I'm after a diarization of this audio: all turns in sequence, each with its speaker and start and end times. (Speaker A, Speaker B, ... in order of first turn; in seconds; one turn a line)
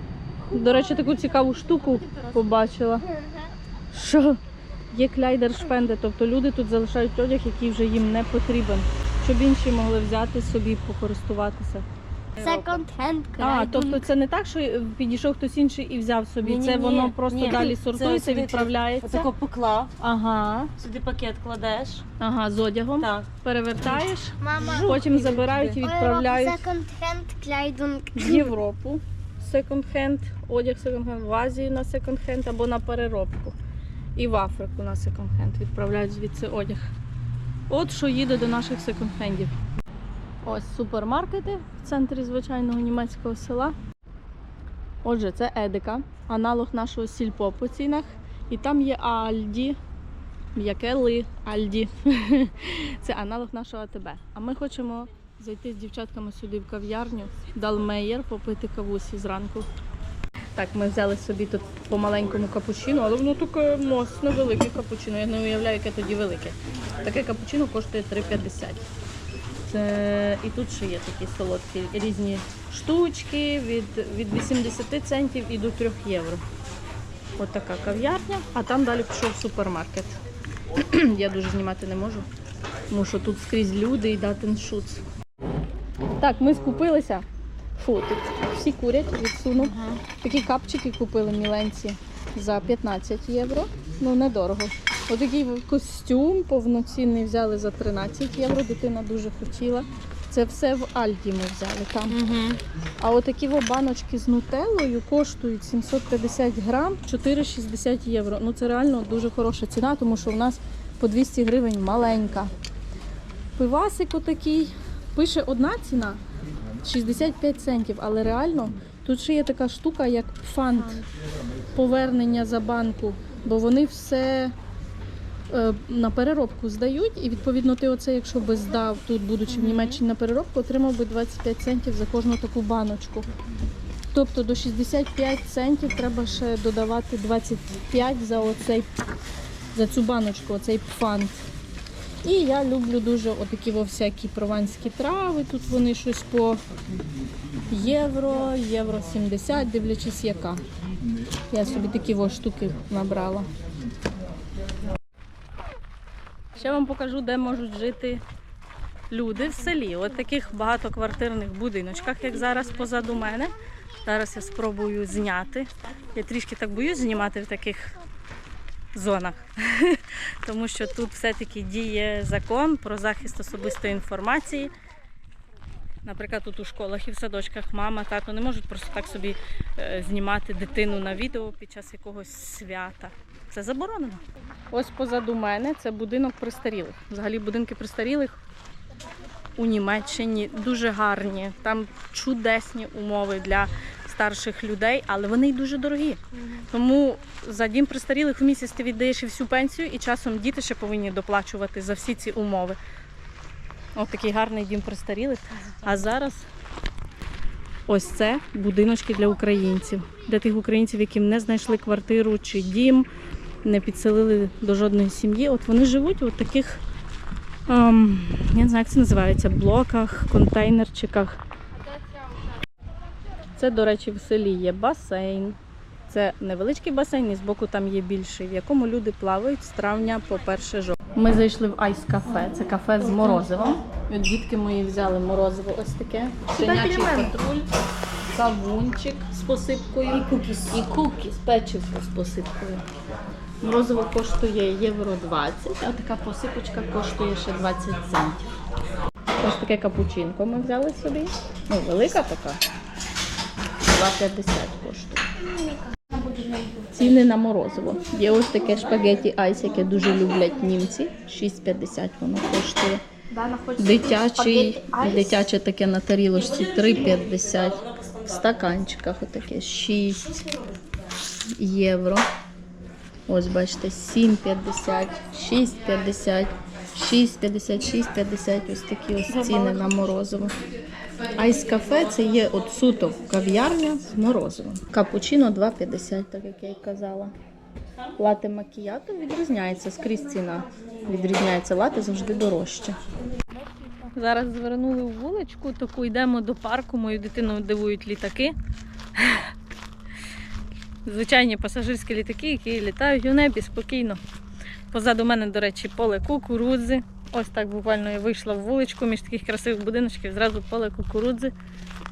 Speaker A: 0.5-3.1
Speaker B: 2.0-2.3
Speaker A: 3.9-4.4
Speaker A: 4.9-11.8
Speaker B: 12.4-12.7
Speaker C: 12.4-14.1
Speaker A: 13.4-19.3
Speaker B: 16.4-19.9
Speaker A: 20.0-20.7
Speaker B: 20.8-22.0
Speaker A: 22.2-26.6
Speaker B: 23.0-23.3
Speaker C: 24.4-25.0
Speaker B: 24.7-25.8
Speaker C: 25.8-28.5
Speaker A: 28.1-33.5
Speaker A: 34.1-36.9
Speaker A: 37.7-39.5
Speaker A: 40.4-43.8
Speaker A: 45.0-49.8
Speaker A: 50.5-59.7
Speaker A: 60.5-68.8
Speaker A: 69.7-76.4
Speaker A: 77.4-80.2
Speaker A: 80.7-82.3
Speaker A: 82.9-85.0
Speaker A: 86.2-87.2
Speaker A: 87.8-112.5
Speaker B: 89.6-90.0
Speaker A: 113.6-116.2
Speaker A: 116.8-121.0
Speaker A: 121.7-124.5
Speaker A: 125.5-133.3
Speaker B: 129.5-130.0
Speaker A: 134.1-138.9
Speaker A: 139.7-141.3
Speaker A: 142.2-146.6
Speaker A: 147.7-150.6
Speaker A: 151.5-153.5
Speaker A: 156.5-158.2
Speaker A: 159.1-168.0
Speaker A: 168.9-174.7
Speaker A: 176.0-188.4
Speaker A: 189.6-202.8
Speaker A: 203.9-206.5
Speaker A: 207.9-213.1
Speaker A: 213.6-216.8
Speaker A: 217.7-221.4
Speaker A: 223.5-225.6
Speaker A: 226.1-237.6
Speaker A: 238.3-242.8
Speaker A: 243.6-248.4
Speaker A: 249.4-252.6
Speaker A: 253.8-255.4
Speaker A: 256.9-263.0
Speaker B: 263.3-265.2
Speaker A: 263.7-270.4
Speaker A: 271.5-272.2
Speaker A: 273.3-280.5
Speaker A: 281.3-287.3
Speaker A: 288.2-293.0
Speaker A: 294.1-298.5
Speaker A: 299.1-299.5
Speaker A: 301.1-304.2
Speaker A: 304.9-311.5